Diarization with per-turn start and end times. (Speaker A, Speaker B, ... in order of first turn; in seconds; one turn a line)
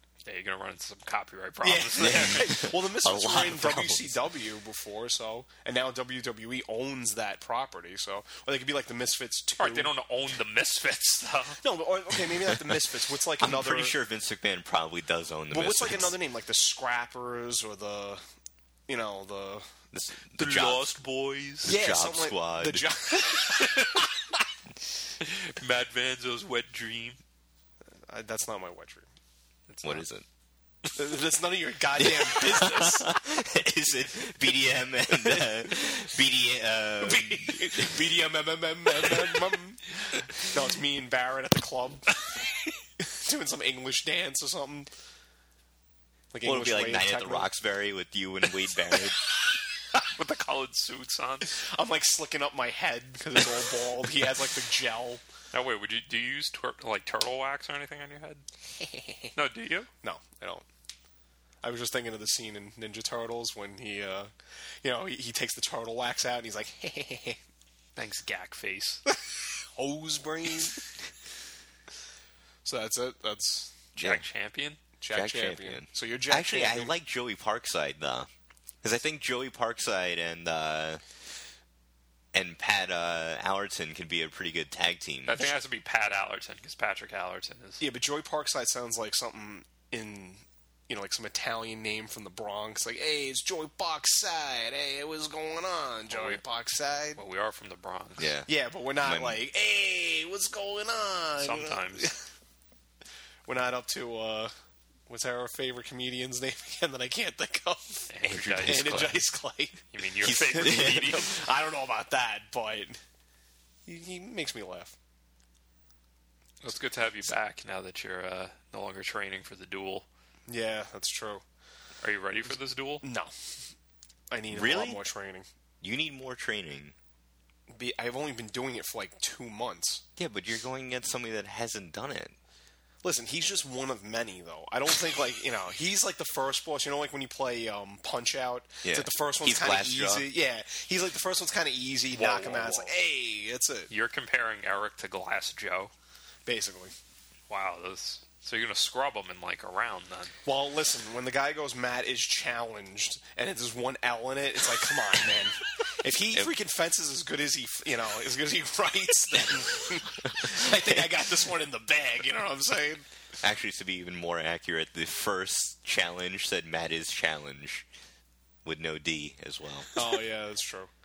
Speaker A: 0.2-2.6
Speaker B: 1.6-9.9
Speaker C: 2.0-4.2
Speaker A: 9.6-11.6
Speaker B: 11.6-13.9
Speaker C: 12.4-12.7
Speaker C: 13.4-16.1
Speaker B: 15.5-18.2
Speaker B: 18.9-19.7
Speaker C: 19.9-21.0
Speaker A: 20.3-21.8
Speaker C: 21.6-22.9
Speaker B: 21.6-24.0
Speaker A: 23.4-24.1
Speaker A: 25.2-27.2
Speaker B: 27.9-29.1
Speaker A: 29.7-30.0
Speaker C: 29.8-30.2
Speaker B: 30.9-33.1
Speaker C: 32.0-38.0
Speaker B: 35.1-35.5
Speaker B: 37.0-42.1
Speaker B: 43.0-44.9
Speaker B: 46.3-47.5
Speaker C: 46.4-49.2
Speaker A: 50.0-51.6
Speaker B: 51.6-55.2
Speaker A: 55.5-58.4
Speaker B: 58.8-59.3
Speaker A: 59.3-59.9
Speaker B: 60.0-60.6
Speaker B: 61.6-64.3
Speaker B: 64.8-67.4
Speaker A: 68.0-69.0
Speaker B: 69.7-70.8
Speaker B: 72.6-73.7
Speaker C: 74.0-74.2
Speaker A: 74.0-74.8
Speaker B: 75.0-76.9
Speaker C: 75.1-78.3
Speaker C: 78.8-81.0
Speaker C: 82.3-85.4
Speaker A: 85.3-87.8
Speaker B: 87.8-97.2
Speaker A: 96.1-96.4
Speaker A: 97.2-98.3
Speaker C: 98.2-99.4
Speaker B: 98.5-102.2
Speaker A: 101.4-102.1
Speaker B: 103.5-104.5
Speaker B: 105.1-113.0
Speaker A: 108.1-109.2
Speaker C: 108.2-109.2
Speaker A: 109.9-111.3
Speaker C: 110.2-111.2
Speaker B: 113.8-114.9
Speaker A: 116.6-120.0
Speaker B: 120.5-121.4
Speaker A: 122.0-123.0
Speaker B: 123.0-123.5
Speaker B: 124.3-125.5
Speaker C: 124.5-125.0
Speaker C: 125.8-126.9
Speaker B: 127.7-130.0
Speaker C: 130.2-132.4
Speaker B: 133.0-143.9
Speaker C: 138.8-140.3
Speaker A: 142.1-143.0
Speaker A: 143.9-145.9
Speaker B: 146.4-146.9
Speaker A: 147.5-150.3
Speaker B: 150.4-163.0
Speaker C: 163.4-167.8
Speaker C: 168.6-169.9
Speaker B: 169.9-170.9